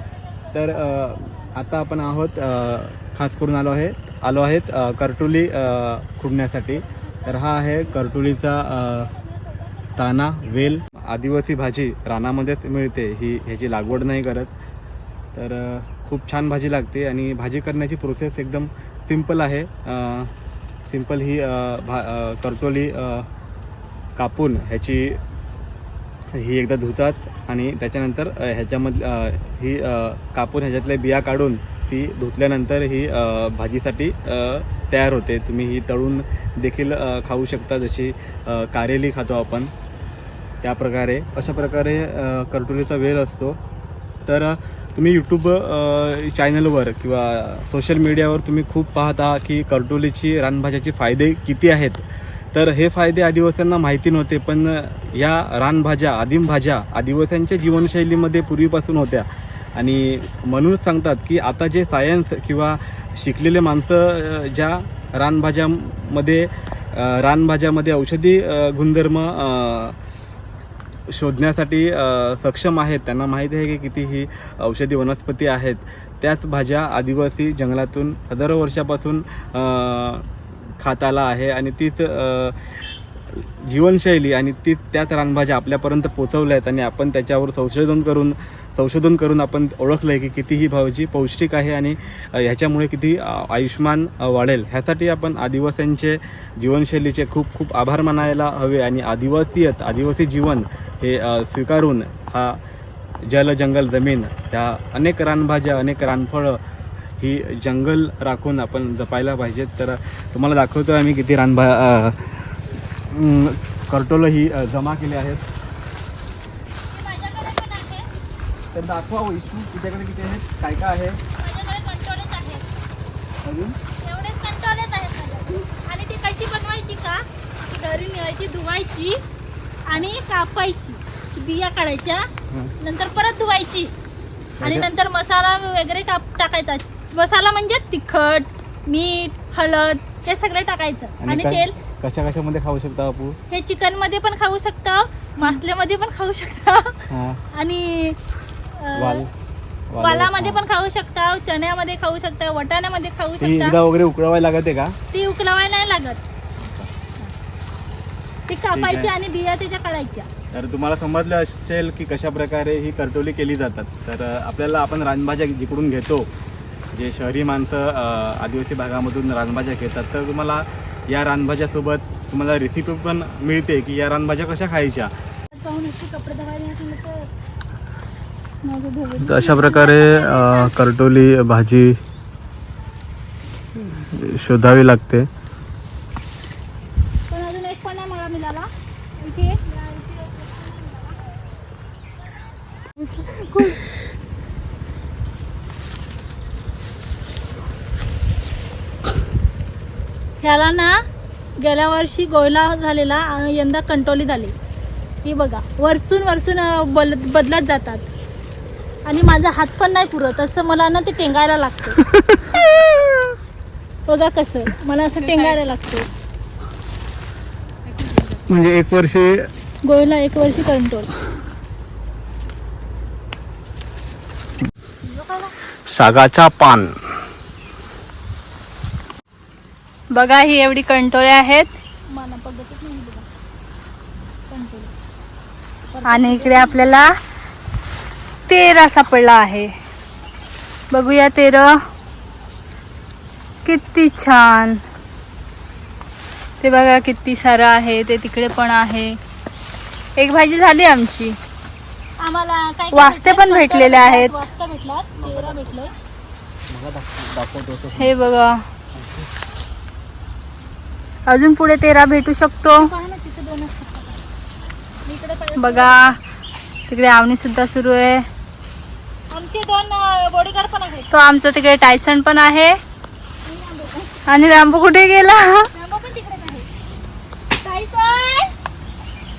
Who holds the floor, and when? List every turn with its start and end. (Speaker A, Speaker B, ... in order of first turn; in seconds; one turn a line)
Speaker A: 0.1-1.5
Speaker B: 0.5-9.1
Speaker A: 7.3-9.7
Speaker B: 10.0-14.5
Speaker B: 15.3-20.3
Speaker B: 20.9-23.3
Speaker B: 24.2-25.2
Speaker B: 26.3-39.7
Speaker B: 40.6-43.6
Speaker B: 44.2-70.0
Speaker B: 71.1-82.8
Speaker B: 83.3-102.6
Speaker B: 103.3-106.6
Speaker B: 107.2-112.5
Speaker B: 113.1-115.4
Speaker A: 116.9-118.1
Speaker B: 118.7-121.2
Speaker A: 121.4-122.6
Speaker B: 123.4-123.7
Speaker A: 124.0-129.2
Speaker A: 129.9-132.3
Speaker A: 132.8-133.9
Speaker B: 134.6-134.9
Speaker A: 134.6-141.7
Speaker B: 141.2-143.4
Speaker A: 143.5-148.2
Speaker B: 147.1-147.4
Speaker A: 148.8-149.2
Speaker B: 148.9-149.3
Speaker B: 149.9-150.6
Speaker A: 150.0-153.8
Speaker B: 153.4-154.9
Speaker A: 155.1-156.2
Speaker B: 156.6-156.9
Speaker A: 158.5-160.3
Speaker B: 158.7-159.1
Speaker B: 160.5-166.3
Speaker B: 166.9-175.1
Speaker A: 175.5-177.3
Speaker C: 178.6-179.4
Speaker B: 179.2-182.0
Speaker A: 179.4-180.7
Speaker B: 183.8-185.3
Speaker A: 187.3-191.2
Speaker C: 193.0-193.8
Speaker A: 200.4-200.9
Speaker A: 201.6-204.5
Speaker A: 205.2-208.0
Speaker A: 209.1-212.0
Speaker B: 212.0-212.8
Speaker A: 214.1-216.0
Speaker C: 215.2-215.6
Speaker C: 217.9-218.4
Speaker B: 218.5-219.4
Speaker A: 219.8-221.1
Speaker A: 225.0-225.5
Speaker B: 225.9-226.9
Speaker C: 230.1-231.7
Speaker A: 232.1-233.3
Speaker A: 234.5-234.9
Speaker A: 235.9-237.0
Speaker C: 236.1-237.1
Speaker C: 238.5-239.7
Speaker C: 240.9-241.8
Speaker C: 243.6-244.8
Speaker C: 246.6-249.2
Speaker C: 250.2-251.4
Speaker A: 252.2-255.9
Speaker C: 252.9-254.4
Speaker B: 255.1-255.8
Speaker B: 256.7-258.2
Speaker C: 257.9-258.6
Speaker B: 258.9-259.3
Speaker C: 261.3-262.9
Speaker A: 262.6-264.2
Speaker A: 265.0-266.1
Speaker C: 265.6-266.2
Speaker C: 266.9-268.3
Speaker A: 269.3-271.1
Speaker C: 271.1-272.8
Speaker A: 273.4-274.2
Speaker C: 274.2-275.7
Speaker A: 275.7-276.7
Speaker A: 277.6-278.5